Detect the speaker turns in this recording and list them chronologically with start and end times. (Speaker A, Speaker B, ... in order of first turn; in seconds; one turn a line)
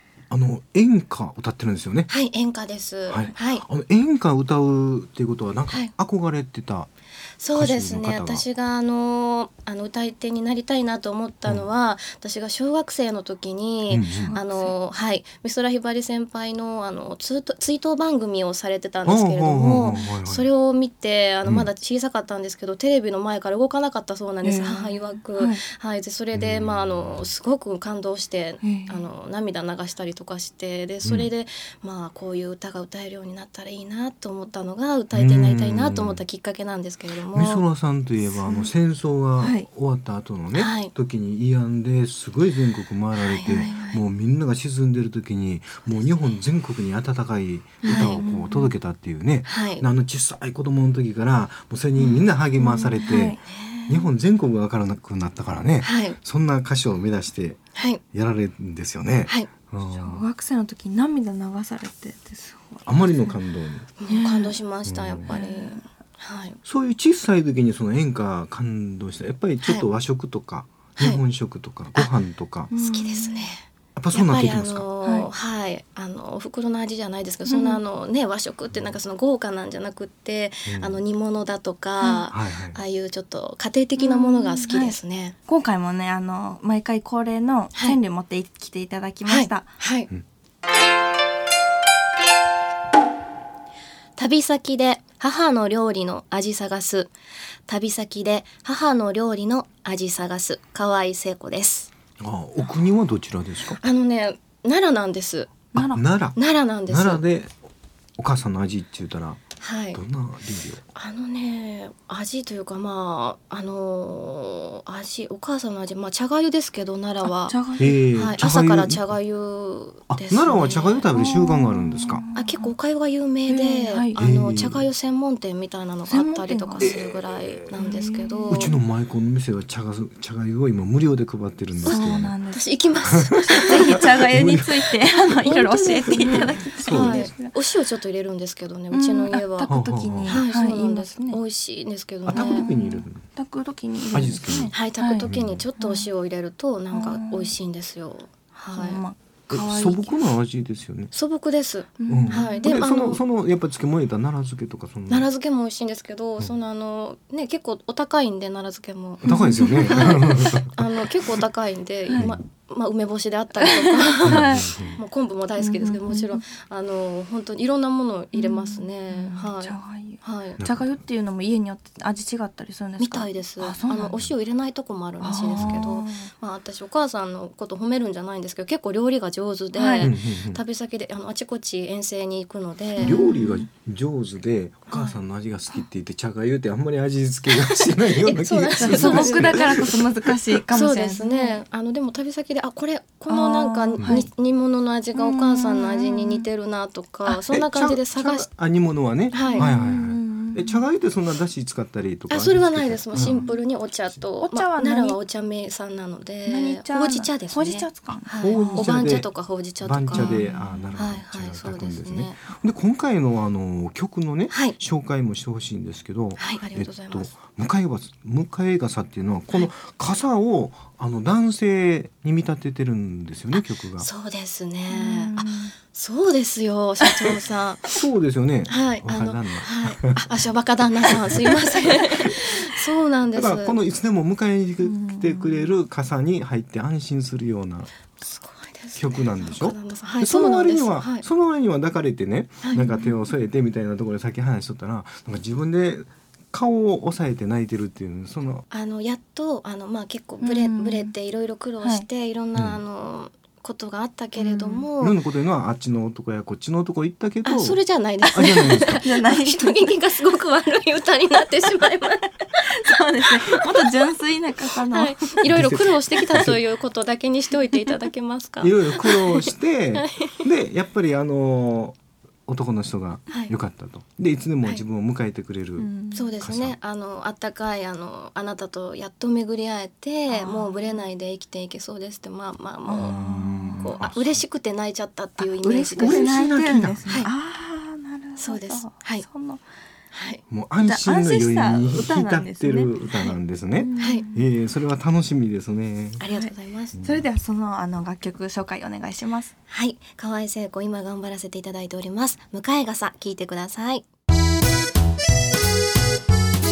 Speaker A: 0.3-2.1
Speaker B: 2.1-3.6
Speaker A: 3.1-6.9
Speaker B: 7.4-37.6
Speaker A: 7.5-8.4
Speaker A: 13.9-14.4
Speaker C: 14.2-14.7
Speaker A: 19.0-20.4
Speaker C: 24.4-25.6
Speaker A: 26.3-27.2
Speaker C: 28.6-29.1
Speaker A: 31.0-31.3
Speaker A: 35.1-36.2
Speaker A: 37.3-57.6
Speaker C: 38.3-38.7
Speaker C: 39.4-39.7
Speaker B: 40.5-40.9
Speaker B: 43.1-43.7
Speaker C: 43.4-44.0
Speaker C: 47.8-48.7
Speaker B: 47.8-48.2
Speaker B: 49.5-49.8
Speaker C: 52.0-54.1
Speaker B: 55.8-56.2
Speaker B: 57.7-58.0
Speaker A: 58.1-60.2
Speaker C: 59.9-63.3
Speaker A: 62.9-63.9
Speaker B: 64.0-66.6
Speaker C: 64.1-64.5
Speaker A: 64.8-65.3
Speaker C: 65.2-65.8
Speaker A: 66.6-72.7
Speaker B: 71.0-71.2
Speaker C: 72.7-73.5
Speaker B: 72.7-85.3
Speaker A: 74.0-74.9
Speaker C: 75.0-75.3
Speaker C: 77.5-77.8
Speaker A: 80.7-81.0
Speaker C: 82.0-82.3
Speaker A: 82.3-82.8
Speaker C: 84.0-89.7
Speaker B: 89.2-90.1
Speaker B: 94.2-97.1
Speaker B: 97.7-101.9
Speaker A: 102.2-103.8
Speaker B: 103.8-105.7
Speaker C: 105.7-106.0
Speaker A: 105.7-107.5
Speaker B: 106.3-107.2
Speaker A: 108.2-109.4
Speaker B: 109.6-110.0
Speaker A: 109.9-110.8
Speaker B: 110.9-117.6
Speaker C: 117.2-118.0
Speaker A: 117.8-119.1
Speaker B: 118.1-121.1
Speaker A: 120.1-122.2
Speaker C: 121.1-122.7
Speaker B: 122.3-128.7
Speaker C: 123.5-124.2
Speaker A: 124.2-124.8
Speaker C: 126.1-127.0
Speaker A: 126.8-127.8
Speaker C: 127.7-128.8
Speaker A: 128.5-132.3
Speaker B: 131.8-134.1
Speaker C: 131.8-132.6
Speaker C: 133.5-137.6
Speaker A: 133.6-137.3
Speaker B: 136.8-139.7
Speaker C: 138.9-141.4
Speaker A: 139.7-140.4
Speaker B: 140.2-142.6
Speaker A: 142.3-143.2
Speaker C: 142.3-146.1
Speaker A: 144.1-144.7
Speaker B: 144.7-149.0
Speaker A: 145.2-145.6
Speaker C: 146.9-147.5
Speaker C: 148.7-150.2
Speaker A: 149.5-151.1
Speaker B: 151.1-153.2
Speaker C: 152.0-152.7
Speaker A: 152.1-155.3
Speaker B: 155.1-170.6
Speaker C: 159.2-160.2
Speaker A: 159.2-160.7
Speaker C: 163.6-164.8
Speaker A: 164.2-165.0
Speaker C: 165.6-166.4
Speaker C: 168.3-174.2
Speaker A: 170.6-170.9
Speaker B: 173.0-183.3
Speaker C: 175.2-176.3
Speaker C: 179.7-180.1
Speaker A: 180.0-180.6
Speaker C: 183.0-183.6
Speaker A: 183.0-190.0
Speaker B: 188.2-189.8
Speaker C: 188.8-191.6
Speaker B: 190.7-198.5
Speaker C: 193.3-194.3
Speaker A: 194.0-194.2
Speaker C: 195.1-196.4
Speaker A: 197.5-203.5
Speaker B: 199.3-199.7
Speaker C: 199.5-200.8
Speaker B: 202.3-210.4
Speaker C: 203.2-203.5
Speaker C: 204.4-205.2
Speaker C: 206.4-209.2
Speaker A: 208.4-224.1
Speaker C: 210.1-210.8
Speaker B: 210.9-212.4
Speaker B: 214.5-214.8
Speaker B: 216.4-217.3
Speaker B: 223.5-228.0
Speaker C: 224.9-225.7
Speaker C: 227.0-227.3
Speaker A: 227.9-230.2
Speaker B: 228.7-233.8
Speaker A: 233.3-237.9
Speaker C: 234.8-235.7
Speaker B: 238.2-241.2
Speaker A: 238.9-248.6
Speaker B: 242.6-242.9
Speaker B: 248.7-255.2
Speaker C: 250.4-251.1
Speaker C: 254.4-254.8
Speaker A: 255.0-259.0
Speaker B: 257.4-262.4
Speaker C: 258.2-259.9
Speaker C: 262.6-265.4
Speaker B: 264.9-270.0
Speaker A: 265.4-266.6
Speaker C: 266.1-266.4
Speaker A: 268.6-275.9
Speaker B: 273.3-273.5
Speaker C: 275.8-276.4
Speaker B: 276.1-283.2
Speaker A: 276.4-276.8
Speaker C: 280.3-281.0
Speaker C: 282.9-284.1
Speaker A: 283.0-284.4
Speaker B: 283.8-286.4
Speaker C: 285.4-289.6
Speaker A: 286.0-287.2
Speaker B: 288.4-289.2
Speaker B: 290.1-290.4
Speaker A: 290.5-296.2
Speaker C: 290.8-292.9
Speaker C: 293.7-294.4
Speaker B: 296.2-296.9
Speaker C: 296.3-299.5
Speaker A: 296.9-297.2
Speaker B: 299.7-304.0